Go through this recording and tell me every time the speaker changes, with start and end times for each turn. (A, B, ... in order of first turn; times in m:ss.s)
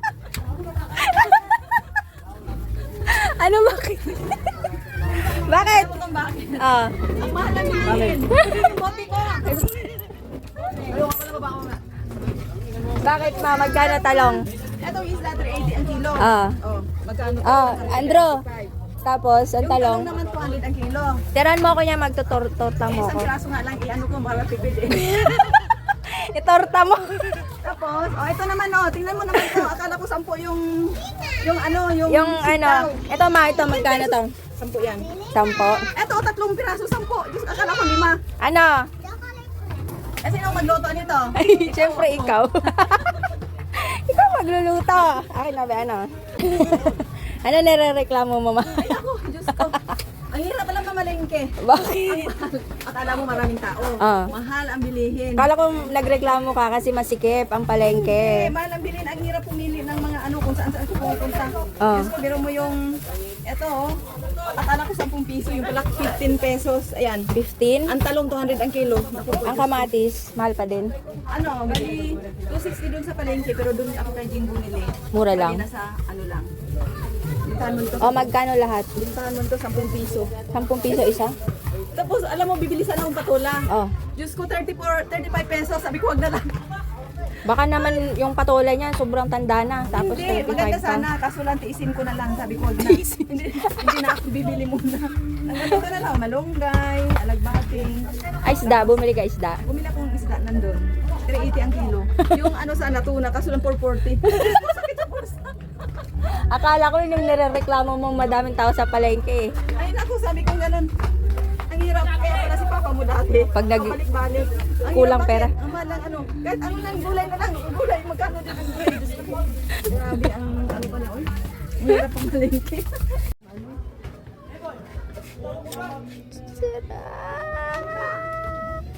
0:01.0-0:01.6 A
0:03.0-0:06.0 A
0:05.1-0:09.8 B
0:06.6-0:06.9 A
0:07.8-0:08.8 A
0:09.4-0:09.8 A
0:10.8-0:11.8 B
0:13.0-0:14.4 A
0:13.4-0:18.7 B
0:16.2-0:16.6 A
0:17.4-0:18.4 A
0:19.0-0:20.1 A
0:19.6-0:21.2 B
0:21.3-0:23.3 A
0:22.9-0:25.6 B
0:24.9-0:27.5 A
0:27.6-0:33.0 B
0:29.3-0:29.7 A
0:32.1-0:34.3 A
0:33.6-0:35.1 B
0:35.3-0:35.9 A
0:35.9-0:38.2 B
0:38.4-0:38.9 A
0:40.2-0:42.4 B
0:41.4-0:43.2 A
0:43.7-0:49.0 A
0:48.7-0:49.8 B
0:49.5-0:49.9 A
0:50.3-0:55.5 B
0:51.6-0:52.3 A
0:54.0-0:54.3 A
0:55.4-0:58.5 A
0:57.8-1:04.0 B
1:01.8-1:02.1 A
1:04.6-1:07.3 B
1:07.3-1:07.9 A
1:07.9-1:09.9 B
1:09.4-1:10.9 A
1:11.3-1:16.5 B
1:15.1-1:15.6 A
1:17.4-1:18.3 B
1:18.0-1:18.9 A
1:18.9-1:20.3 B
1:20.5-1:21.3 A
1:21.9-1:26.5 B
1:27.4-1:31.1 A
1:29.9-1:39.0 B
1:32.8-1:33.2 A
1:33.8-1:34.0 A
1:38.4-1:39.6 A
1:39.6-1:45.5 B
1:46.5-1:49.5 A
1:49.7-1:50.9 B
1:51.7-2:03.0 B
1:53.5-1:54.0 A
1:54.9-1:55.5 A
2:06.4-2:08.0 A